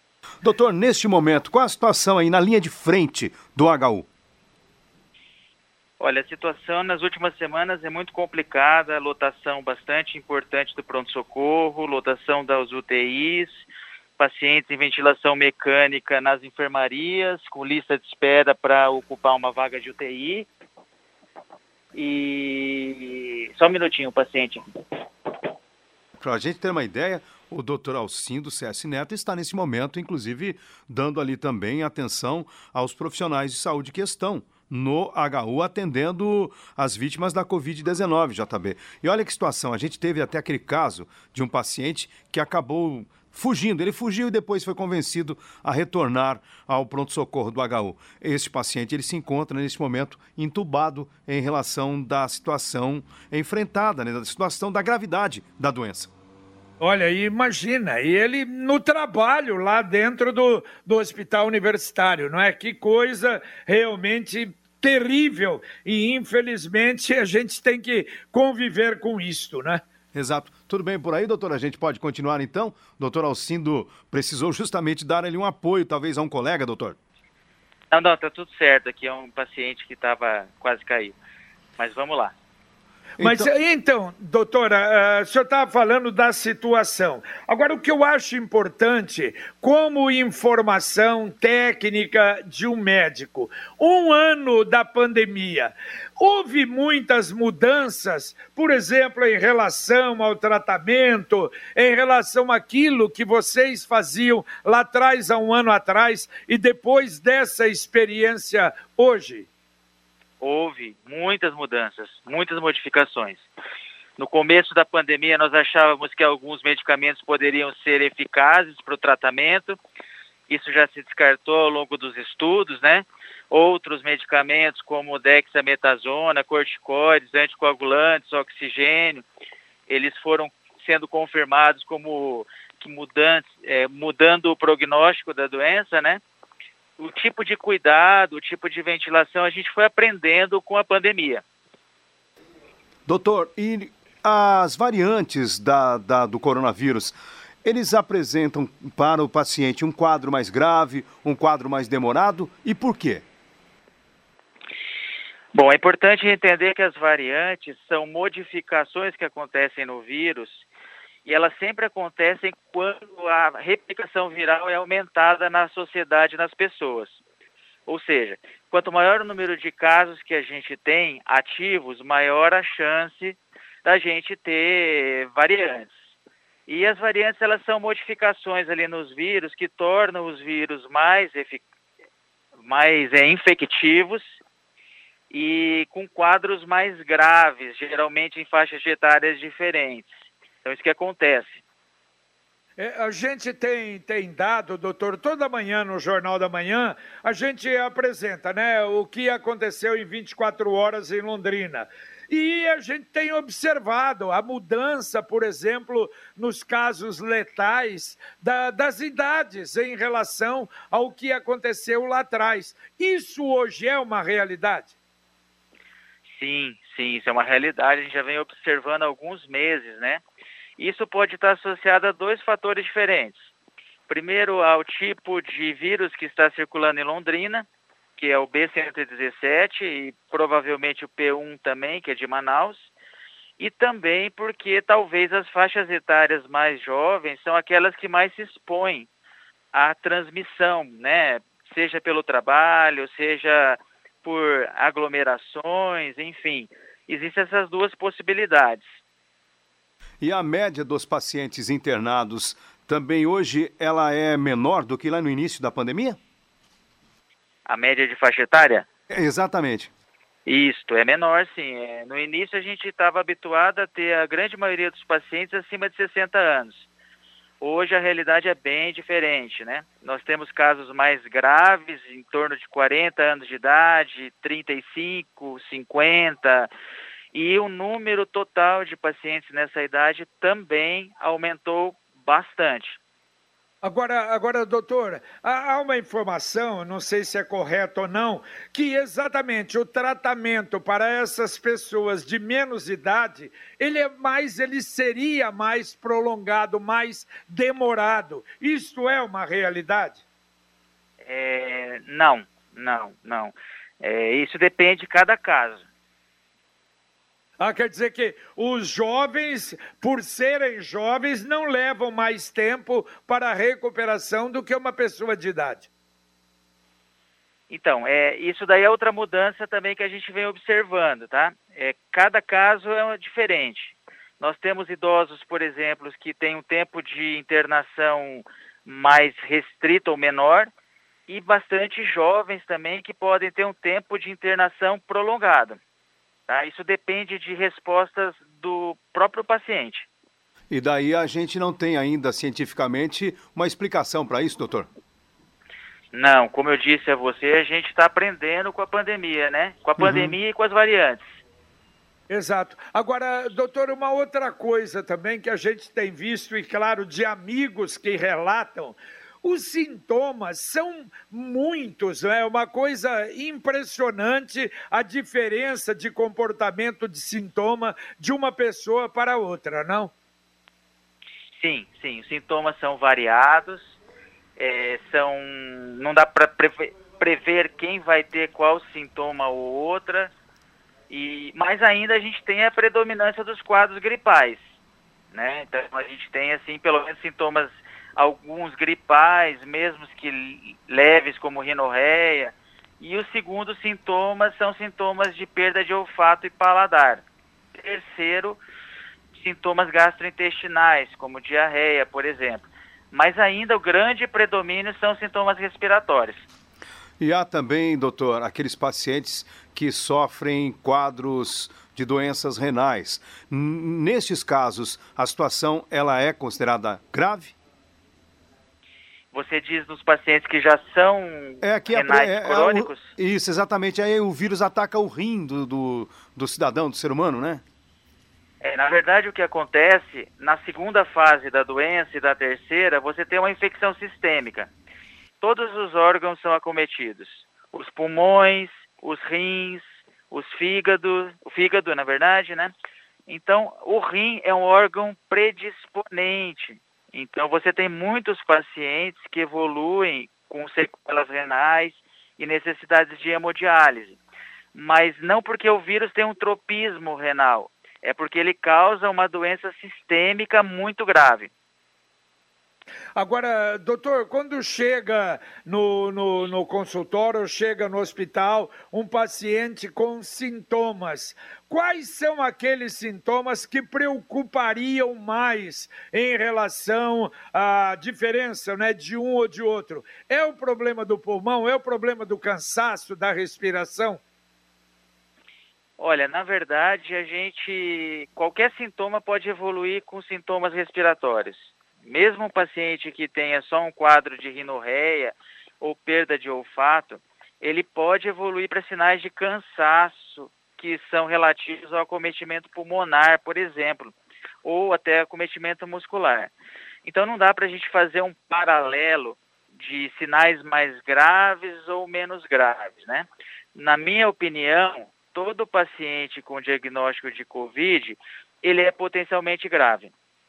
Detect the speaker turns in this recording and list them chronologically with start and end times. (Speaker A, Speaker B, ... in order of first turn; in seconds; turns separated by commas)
Speaker A: 0.4-4.1, Speaker B: 6.0-13.6, Speaker B: 14.2-20.5, Speaker B: 21.9-24.7, Speaker A: 26.2-56.1, Speaker C: 56.8-69.8, Speaker A: 70.1-77.0, Speaker B: 77.9-81.2, Speaker B: 81.8-82.3, Speaker A: 83.2-83.5, Speaker C: 83.2-109.5, Speaker B: 110.4-113.5, Speaker B: 114.2-119.8, Speaker B: 120.5-129.2, Speaker B: 129.9-136.2, Speaker B: 137.0-141.4, Speaker A: 143.1-153.3, Speaker B: 155.5-160.7, Speaker B: 161.3-167.2, Speaker B: 167.9-175.9, Speaker B: 176.7-181.6, Speaker B: 182.6-184.4, Speaker B: 185.3-190.1, Speaker B: 190.6-191.6, Speaker C: 192.8-214.9, Speaker B: 216.3-220.2, Speaker B: 220.8-223.5, Speaker B: 224.1-227.7, Speaker B: 228.2-232.9, Speaker B: 233.6-239.1, Speaker B: 239.7-248.8, Speaker A: 250.2-256.2, Speaker B: 257.6-258.9, Speaker A: 259.1-259.9, Speaker B: 260.5-266.9, Speaker B: 267.6-276.7, Speaker B: 277.3-283.0, Speaker C: 283.8-300.2, Speaker B: 301.2-305.9, Speaker C: 307.6-315.9, Speaker B: 317.7-330.7, Speaker B: 331.3-335.8, Speaker B: 336.5-340.1, Speaker A: 340.7-344.9, Speaker B: 346.1-351.2, Speaker A: 350.0-350.4, Speaker C: 352.3-370.1, Speaker B: 371.6-373.9, Speaker B: 374.6-380.3, Speaker B: 381.1-384.6, Speaker B: 385.3-397.2, Speaker B: 397.8-398.6, Speaker B: 399.3-406.5, Speaker A: 407.2-417.5, Speaker B: 419.3-423.1, Speaker A: 421.6-427.6, Speaker B: 428.6-434.7, Speaker B: 435.4-442.7, Speaker B: 443.3-454.2, Speaker B: 454.8-461.5, Speaker C: 463.1-484.2, Speaker B: 486.0-506.5, Speaker B: 507.0-520.1